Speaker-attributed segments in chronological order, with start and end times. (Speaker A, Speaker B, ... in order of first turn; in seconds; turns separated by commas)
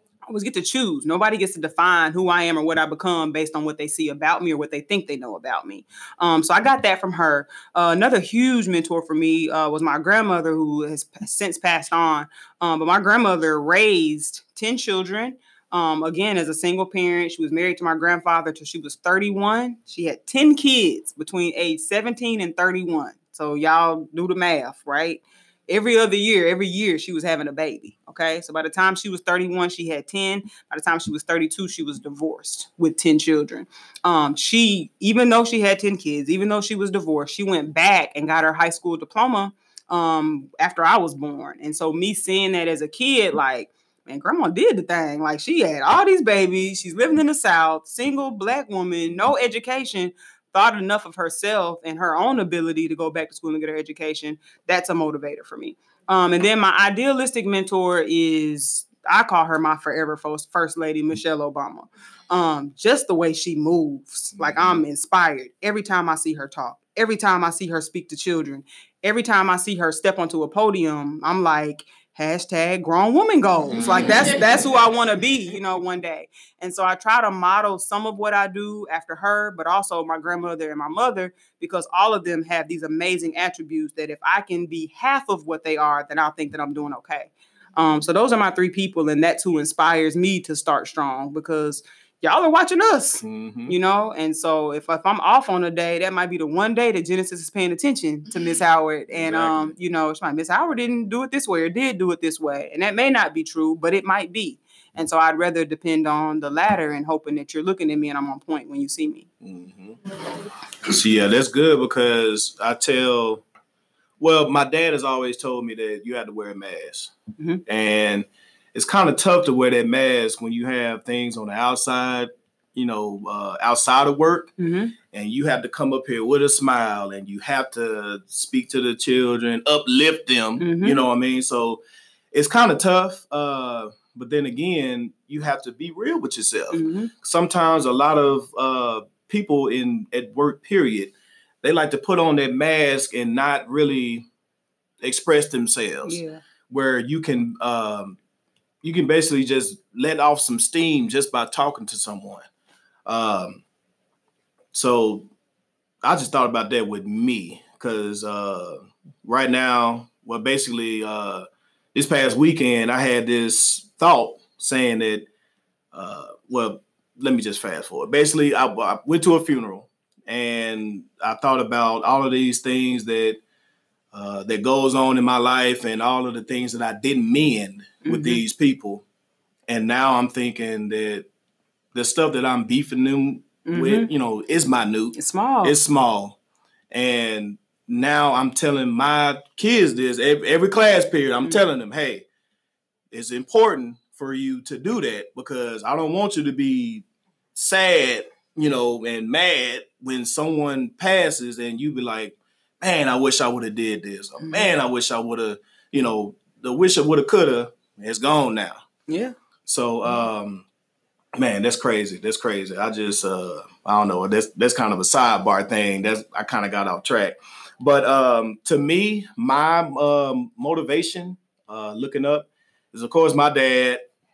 Speaker A: 0.2-109.3, Speaker B: 64.4-64.8, Speaker B: 93.2-93.8, Speaker B: 99.1-99.8, Speaker B: 109.4-110.0, Speaker B: 110.8-113.4, Speaker B: 114.2-117.1, Speaker A: 117.4-117.6, Speaker B: 117.7-124.5, Speaker A: 124.6-124.9, Speaker B: 125.1-144.3, Speaker A: 130.6-131.0, Speaker A: 136.7-137.1, Speaker B: 145.0-148.2, Speaker A: 146.0-146.4, Speaker B: 148.8-152.5, Speaker B: 153.1-153.6, Speaker B: 154.7-155.3, Speaker B: 156.0-165.3, Speaker B: 165.9-173.4, Speaker B: 174.1-179.0, Speaker A: 178.0-178.4, Speaker B: 179.7-181.3, Speaker B: 181.9-186.4, Speaker A: 183.7-184.1, Speaker A: 185.2-185.8, Speaker B: 186.9-192.3, Speaker B: 193.1-197.0, Speaker B: 197.6-208.8, Speaker A: 204.4-204.7, Speaker A: 209.1-209.3, Speaker B: 209.7-210.7, Speaker B: 211.3-224.1